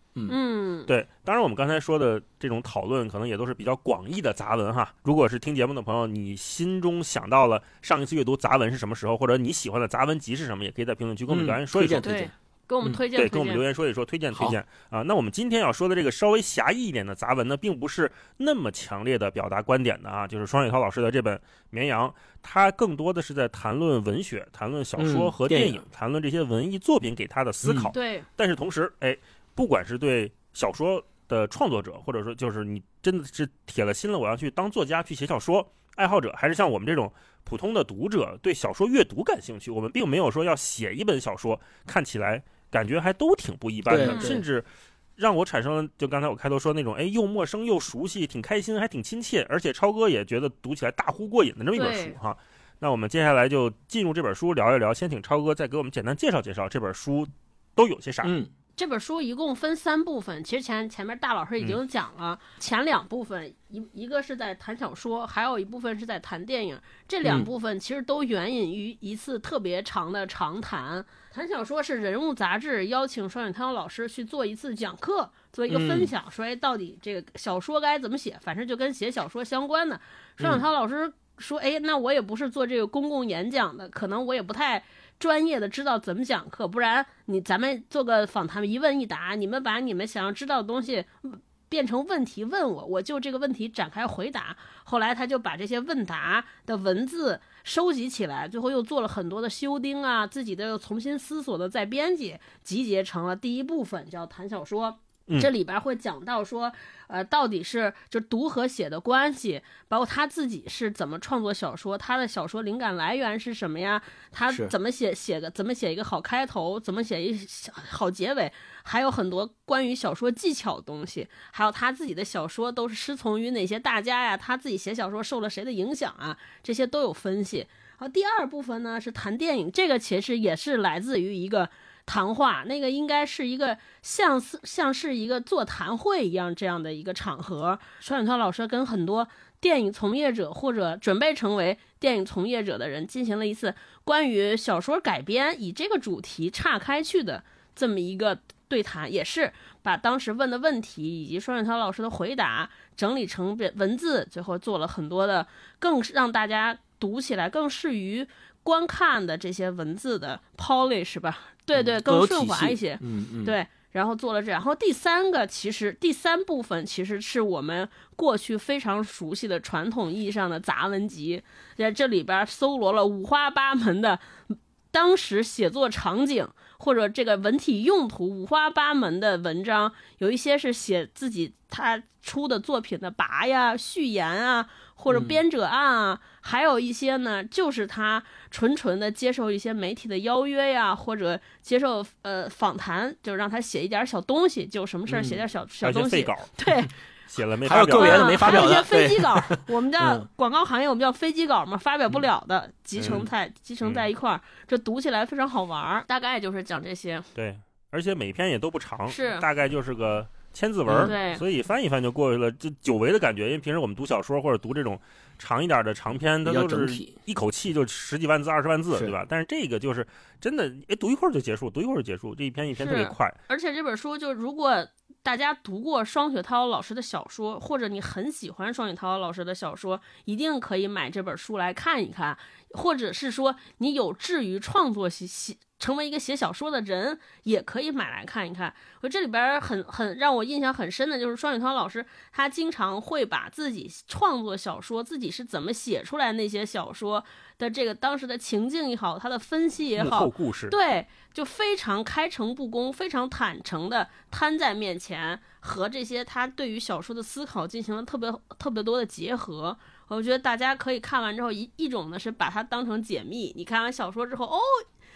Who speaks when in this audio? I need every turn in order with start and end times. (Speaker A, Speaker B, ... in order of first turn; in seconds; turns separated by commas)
Speaker A: 0.3-0.9, Speaker B: 0.9-12.1, Speaker C: 11.3-12.3, Speaker A: 12.0-13.6, Speaker B: 13.1-44.6, Speaker C: 25.0-25.8, Speaker C: 27.6-27.9, Speaker A: 27.9-28.2, Speaker C: 43.9-44.4, Speaker A: 44.0-44.4, Speaker B: 45.2-58.3, Speaker A: 51.7-52.1, Speaker C: 58.2-58.5, Speaker A: 58.8-196.9, Speaker C: 75.7-76.1, Speaker C: 161.7-163.5, Speaker C: 185.1-185.4, Speaker C: 195.1-195.4, Speaker B: 195.8-196.5, Speaker B: 197.3-198.7, Speaker C: 197.6-200.3, Speaker A: 198.0-207.3, Speaker B: 203.0-203.2, Speaker B: 207.3-223.3, Speaker A: 209.1-209.4, Speaker C: 210.9-211.1, Speaker A: 211.0-211.4, Speaker C: 216.4-217.1, Speaker A: 222.8-264.8, Speaker B: 250.0-250.7